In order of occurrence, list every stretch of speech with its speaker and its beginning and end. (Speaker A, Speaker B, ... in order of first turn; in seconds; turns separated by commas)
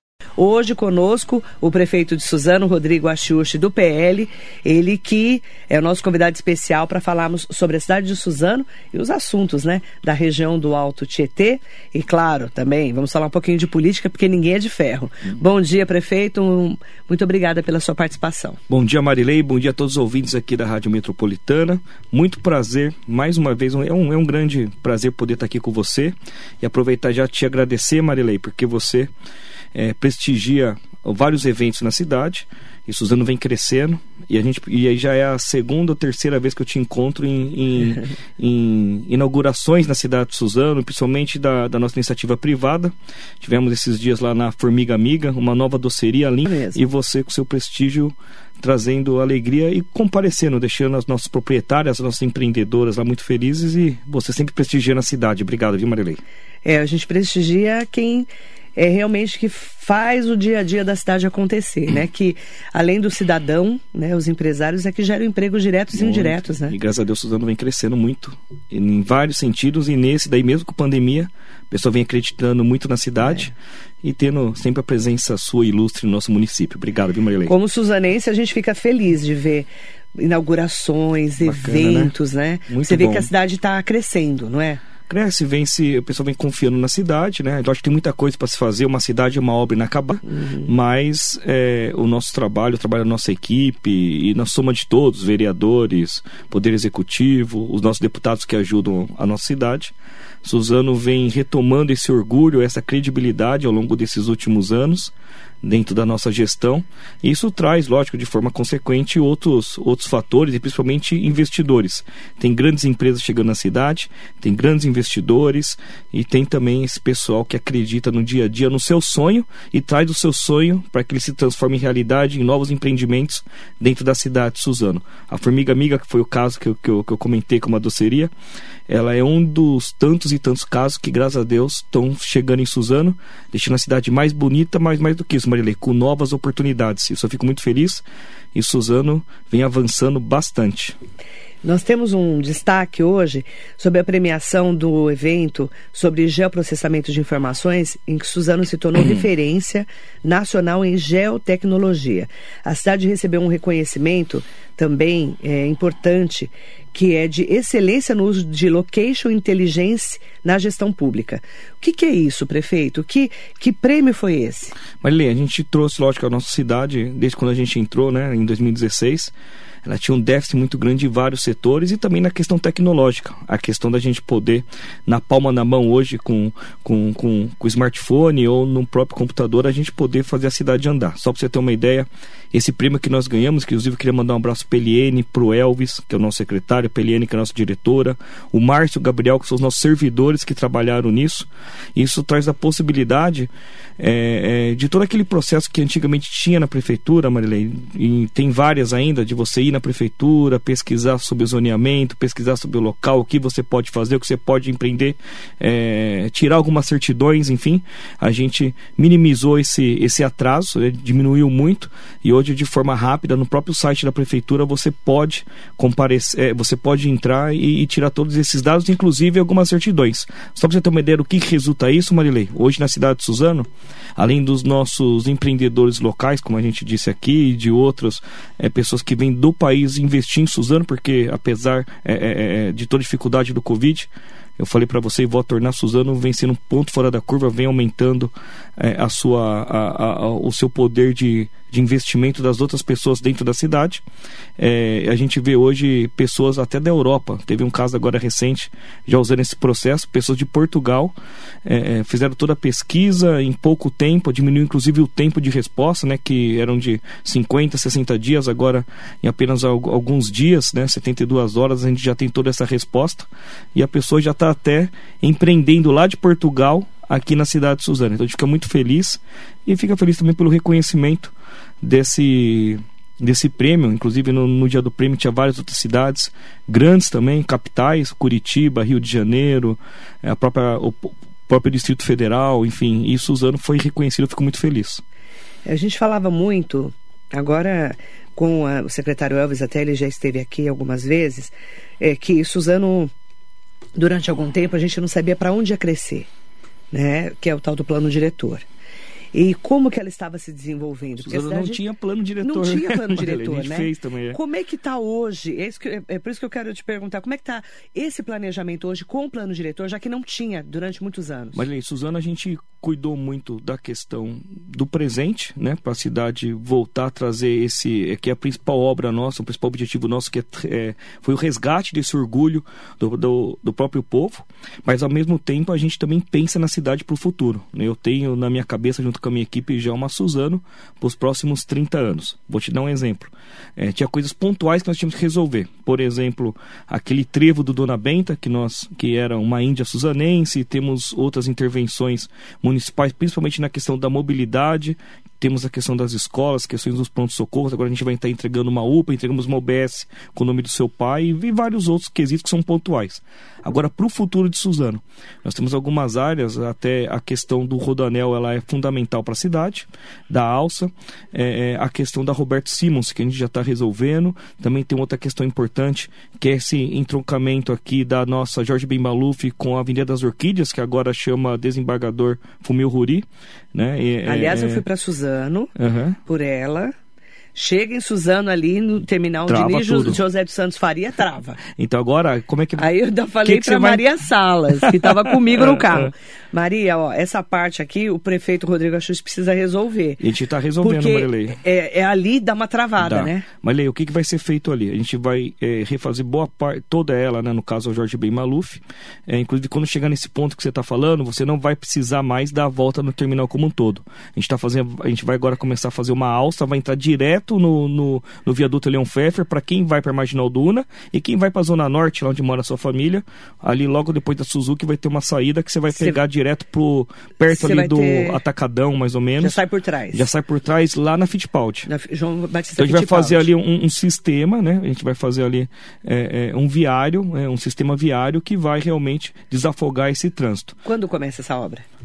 Speaker A: 0.4-18.6, Speaker B: 18.7-29.1, Speaker B: 29.7-56.2, Speaker A: 46.5-46.8, Speaker A: 56.6-66.8, Speaker B: 65.9-73.5, Speaker A: 73.2-73.5, Speaker B: 74.0-77.5, Speaker A: 77.5-84.8, Speaker B: 81.4-82.2, Speaker B: 82.7-83.3, Speaker B: 85.1-99.9, Speaker A: 90.3-90.7, Speaker B: 100.4-128.3, Speaker B: 128.9-141.0, Speaker A: 141.6-164.8, Speaker B: 149.0-149.3, Speaker B: 165.0-169.3, Speaker B: 169.8-244.0, Speaker B: 244.6-285.0, Speaker A: 285.6-293.1, Speaker A: 294.0-296.3, Speaker A: 296.9-298.7, Speaker A: 299.3-301.8, Speaker B: 301.2-304.4, Speaker A: 302.4-311.6, Speaker B: 311.6-374.8, Speaker A: 374.2-375.7, Speaker B: 375.8-376.2, Speaker A: 376.2-376.9, Speaker A: 377.6-381.6, Speaker B: 379.5-380.2, Speaker B: 381.6-382.9, Speaker A: 382.8-390.2, Speaker B: 383.4-384.1, Speaker B: 384.8-386.1, Speaker B: 390.2-391.6, Speaker A: 390.8-393.5, Speaker B: 393.0-419.6, Speaker A: 415.9-416.2, Speaker A: 417.5-418.4, Speaker A: 419.4-420.3, Speaker B: 420.1-421.9, Speaker A: 421.9-423.5, Speaker B: 422.8-430.8, Speaker A: 430.9-431.9